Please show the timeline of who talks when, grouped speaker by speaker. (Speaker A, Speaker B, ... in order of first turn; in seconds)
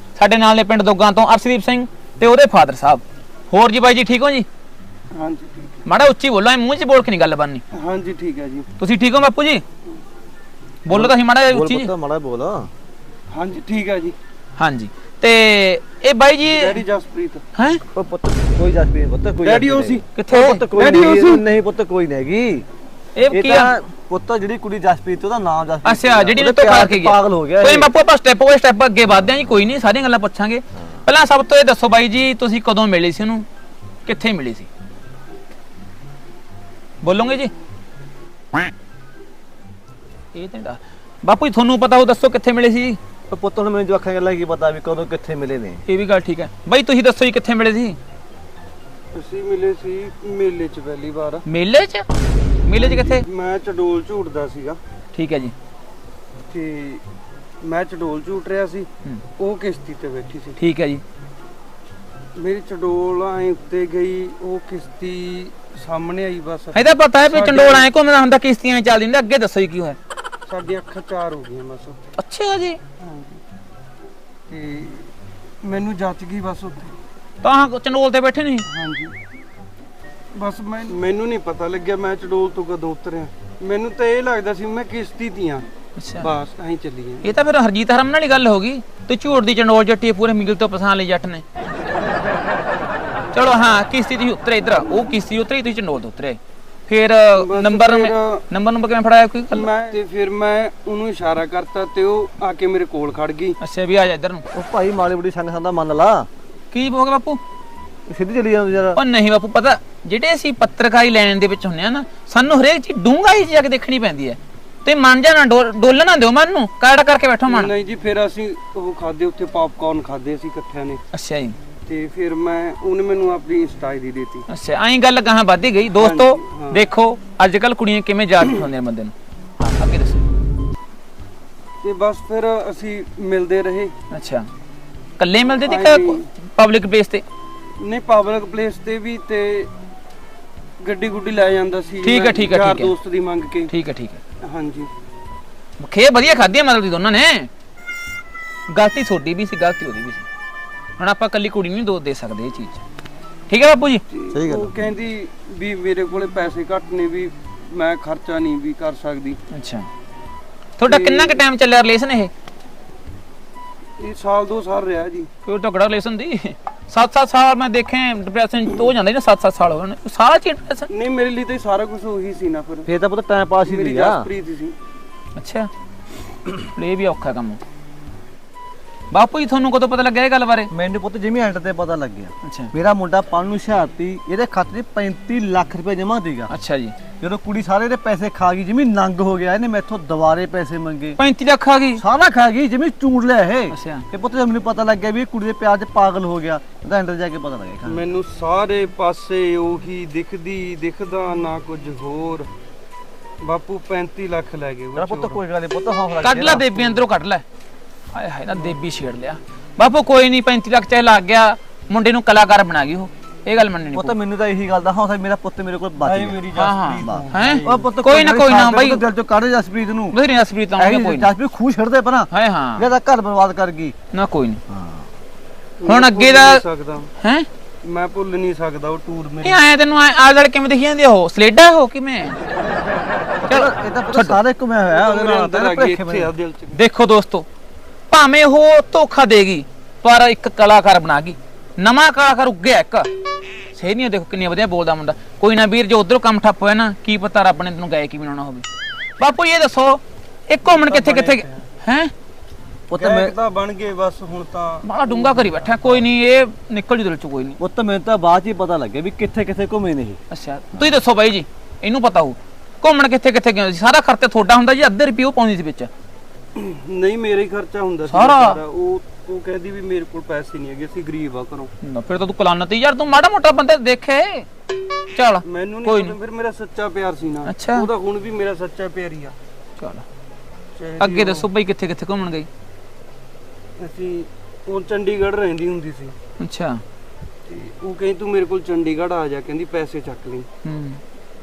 Speaker A: 0.2-4.5, 5.8-7.6, 8.8-9.6, 10.8-11.9, 14.6-16.8, 17.6-17.8, 20.1-20.9, 23.2-23.7, 25.8-33.5, 34.1-34.7, 37.0-37.5, 40.3-43.0, 45.9-48.0, 51.5-52.1, 52.6-53.2, 55.1-55.5, 60.6-61.0, 66.7-70.0, 72.2-72.8, 77.4-78.7, 86.0-86.3, 87.2-91.4, 93.3-99.7, 103.6-104.4, 106.7-107.4, 108.9-117.7, 121.1-121.6, 124.5-130.2, 134.1-134.5, 135.2-137.2, 142.0-142.9, 143.7-144.2, 145.8-147.5, 148.7-150.3, 151.0-152.8, 153.5-154.0, 159.5-159.9, 160.8-162.3, 165.5-170.9, 175.4-175.7, 176.8-177.6, 179.1-180.7, 182.4-182.7, 186.5-186.9, 191.2-192.0, 193.7-194.1, 206.2-207.4, 208.1-214.1, 216.5-219.0, 220.1-221.3, 222.3-222.9, 224.1-224.6, 225.9-226.6, 227.2-227.5, 229.4-232.4, 233.5-234.4, 236.7-237.5, 238.1-243.1, 243.7-248.7, 249.2-252.1, 254.8-257.6, 260.3-265.9, 268.1-268.6, 271.8-274.5, 275.1-276.1, 277.5-277.9, 279.8-280.1, 281.0-282.5, 286.4-286.8, 290.6-291.0
Speaker B: 5.1-5.8, 7.7-8.7, 13.3-14.2, 16.5-17.4, 19.4-20.0, 20.8-21.4, 49.1-51.4, 52.8-54.8, 56.5-57.0, 57.6-58.9, 59.4-60.6, 62.4-67.9, 70.5-72.0, 73.0-73.4, 74.5-75.1, 75.6-76.9, 78.7-79.1, 80.3-85.7, 86.2-87.3, 97.4-98.4, 99.5-103.6, 117.5-121.0, 121.9-124.5, 126.0-126.8, 131.8-133.9, 135.7-136.2, 137.8-139.7, 140.8-143.7, 144.4-144.9, 154.1-159.4, 160.9-161.4, 164.0-165.3, 170.9-172.9, 173.7-174.8, 197.9-202.5, 203.4-205.4, 216.0-217.9, 225.8-227.1, 227.8-229.6, 234.9-236.8, 250.7-251.6, 252.9-255.5, 266.6-271.7, 275.4-279.4, 280.8-281.5, 283.8-286.1, 287.5-290.5
Speaker C: 10.9-12.7, 17.9-22.6, 23.3-27.9, 43.3-45.8, 104.5-106.3, 108.1-109.0, 154.3-154.7, 172.9-174.3, 180.7-186.5, 187.2-191.2, 192.0-198.0, 205.0-207.0, 213.9-216.4, 217.0-220.2, 220.8-223.9, 224.7-225.1, 233.4-236.3, 252.9-253.3, 257.6-260.2